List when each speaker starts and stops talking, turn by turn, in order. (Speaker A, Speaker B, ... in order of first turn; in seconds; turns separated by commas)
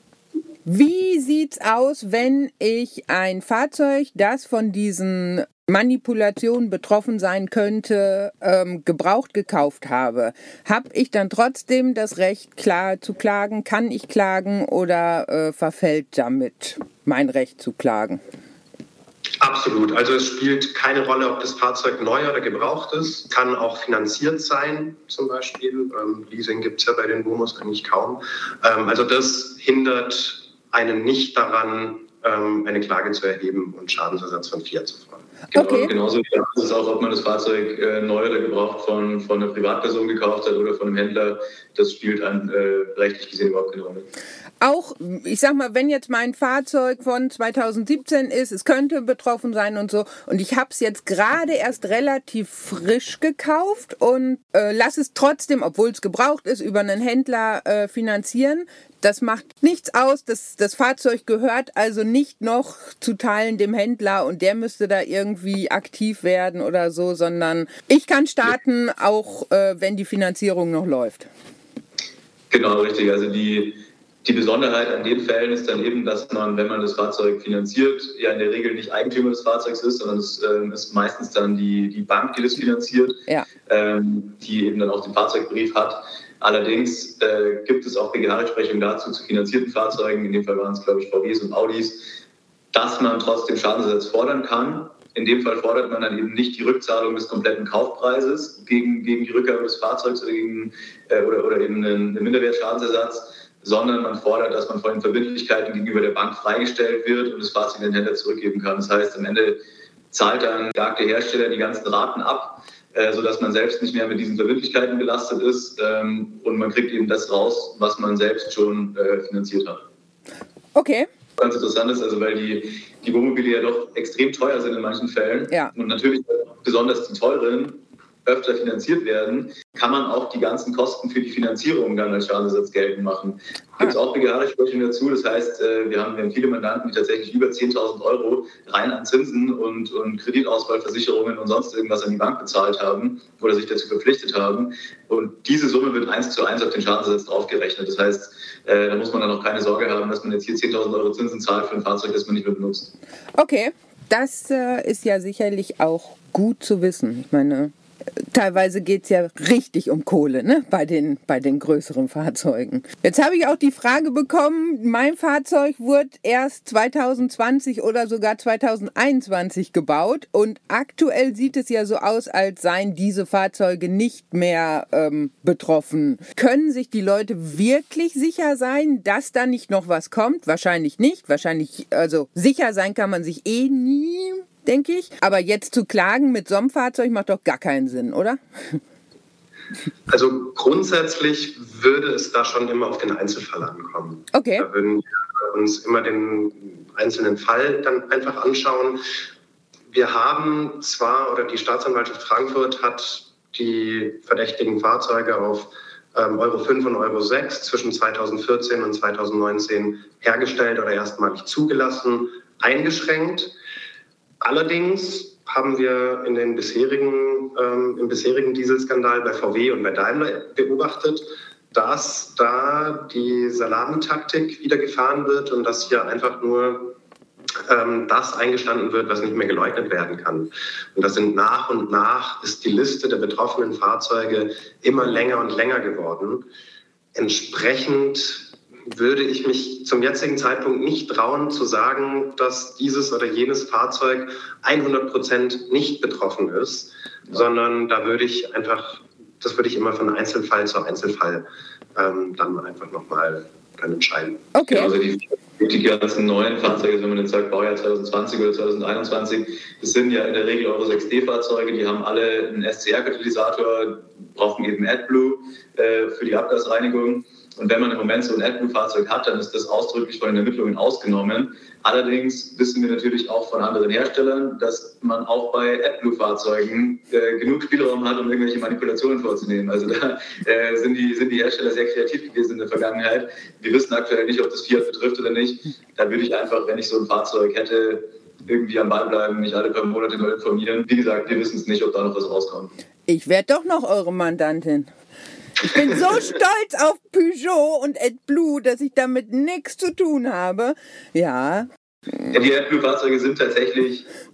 Speaker A: 0.7-18.2, Speaker B: 19.4-35.2, Speaker A: 35.5-35.9, Speaker C: 35.5-44.1, Speaker A: 44.6-71.3, Speaker C: 72.5-92.2, Speaker C: 92.7-109.6, Speaker C: 110.1-119.9, Speaker A: 120.8-121.1, Speaker C: 121.4-152.9, Speaker A: 153.4-157.7, Speaker A: 158.3-188.8, Speaker B: 190.1-199.0, Speaker A: 194.3-194.7, Speaker B: 199.9-213.5, Speaker B: 214.4-226.9, Speaker B: 227.7-236.5, Speaker B: 237.2-254.5, Speaker A: 254.6-254.9, Speaker C: 254.7-292.7, Speaker A: 293.1-294.9, Speaker A: 295.6-301.7, Speaker C: 302.3-304.1